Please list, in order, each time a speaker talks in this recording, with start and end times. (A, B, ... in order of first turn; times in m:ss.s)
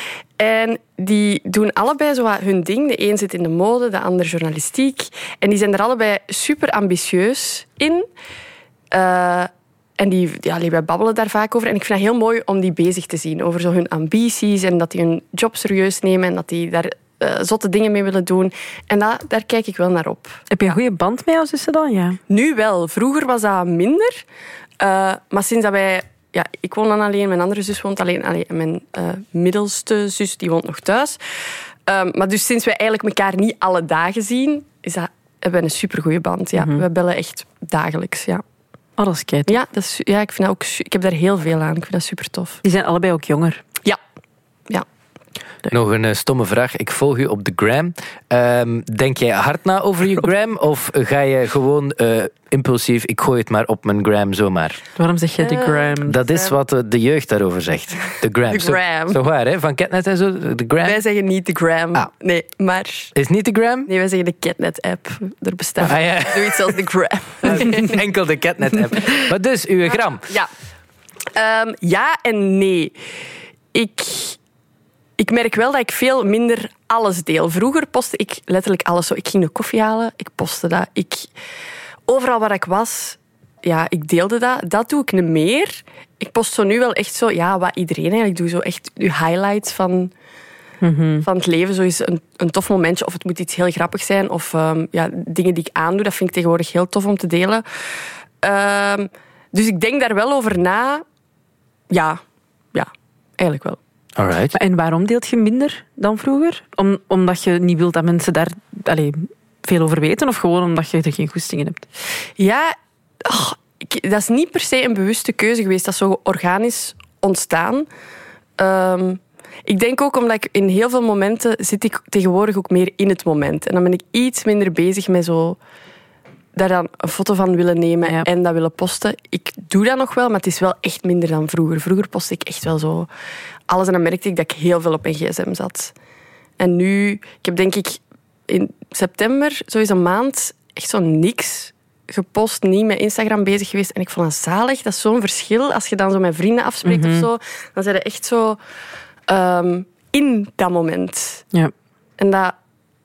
0:00.4-0:08.1 A
0:08.9-0:20.4 A
0:20.5-0:22.2 B
0:22.3-0:24.2 A
0:24.8-0:31.2 A
0:31.9-0:38.4 A
0:36.6-0:36.8 B
0:39.0-0:39.6 B
0:39.5-0:42.6 A
0:42.6-0:43.6 B
0:45.7-0:54.8 C
0:55.0-0:56.2 B
0:55.4-0:56.5 A
0:56.0-1:01.0 C
0:58.5-0:59.2 A
1:00.8-1:03.1 A
1:03.1-1:03.9 C
1:03.8-1:08.0 A
1:05.8-1:06.8 C
1:07.4-1:10.3 C
1:09.9-1:10.5 A
1:11.3-1:12.9 A
1:13.7-1:14.4 A
1:15.2-1:21.3 A
1:22.1-1:30.1 A
1:30.8-1:31.2 B
1:31.2-1:37.6 A
1:38.4-1:41.0 A
1:41.9-1:42.2 A
1:42.7-1:43.8 A
1:44.2-1:44.5 C
1:44.5-1:51.8 B
1:52.4-1:57.9 A
1:58.6-2:05.6 A
2:06.5-2:13.1 A
2:13.7-2:15.9 A
2:16.6-2:28.6 A
2:26.8-2:27.3 B
2:29.3-2:31.4 A
2:32.2-2:32.5 A